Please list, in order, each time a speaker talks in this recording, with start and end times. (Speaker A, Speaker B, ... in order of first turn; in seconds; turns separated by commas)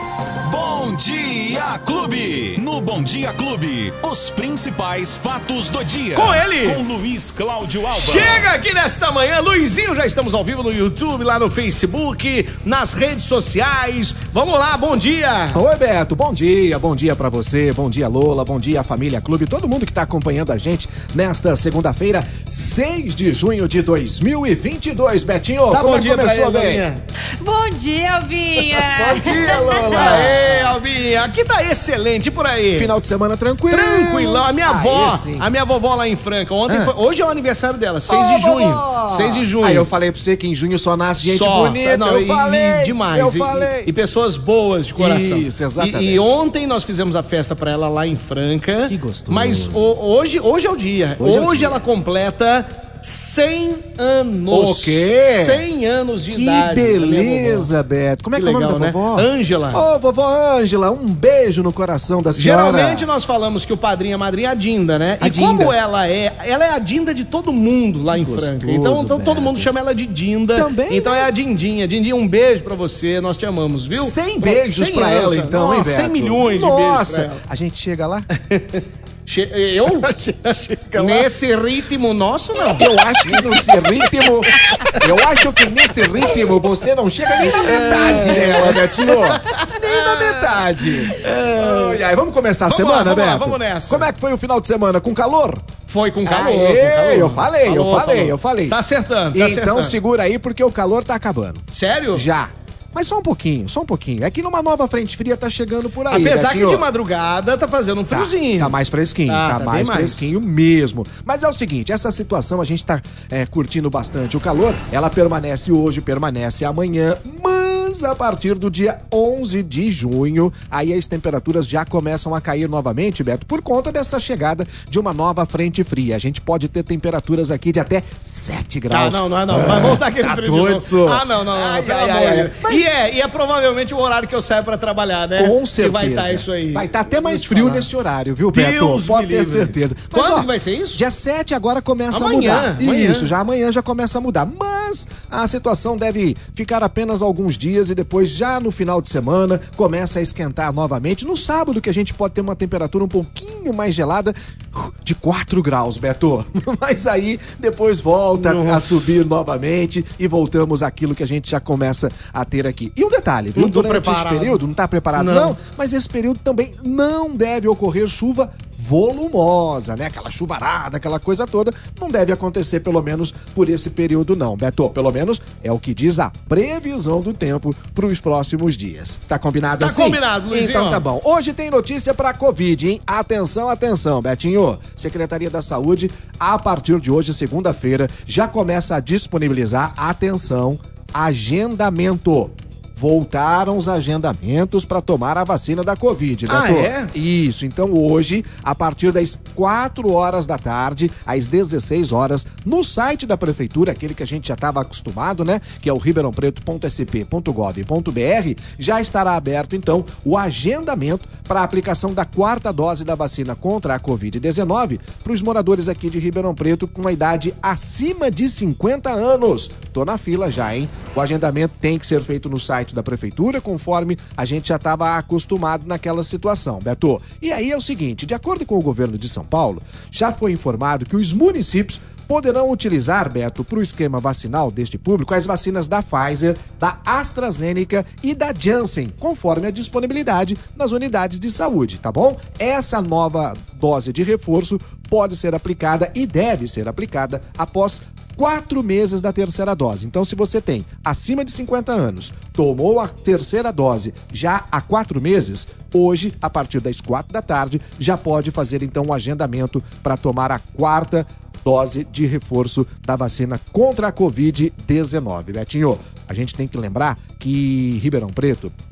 Speaker A: 0.4-8.4, Speaker B: 6.1-6.8, Speaker B: 7.9-15.6, Speaker C: 15.5-26.9, Speaker B: 25.7-27.0, Speaker D: 27.4-30.2, Speaker C: 28.7-30.7, Speaker B: 29.9-32.9, Speaker C: 32.7-35.5, Speaker B: 33.7-39.9, Speaker C: 36.7-36.9, Speaker C: 38.1-43.9, Speaker B: 41.2-57.7, Speaker C: 45.0-46.4, Speaker C: 48.9-49.9, Speaker C: 51.2-51.8, Speaker C: 54.5-55.6, Speaker C: 56.3-63.0, Speaker B: 58.4-59.8, Speaker B: 62.4-77.4, Speaker C: 65.2-65.7, Speaker C: 68.1-69.7, Speaker C: 70.5-71.3, Speaker C: 73.9-78.3, Speaker B: 78.4-83.7, Speaker C: 79.8-81.3, Speaker C: 82.8-95.6, Speaker B: 84.5-85.7, Speaker B: 87.4-92.0, Speaker B: 92.6-94.1, Speaker B: 95.9-99.9, Speaker C: 96.2-98.8, Speaker C: 99.3-106.8, Speaker B: 101.7-102.3, Speaker B: 106.1-108.7, Speaker C: 108.1-132.8, Speaker B: 109.3-110.2, Speaker B: 128.9-137.9, Speaker C: 135.3-268.7, Speaker B: 138.5-141.0, Speaker B: 142.1-143.3, Speaker B: 158.3-158.8, Speaker B: 163.5-164.6, Speaker B: 165.1-165.6, Speaker B: 179.8-181.1, Speaker B: 196.5-197.1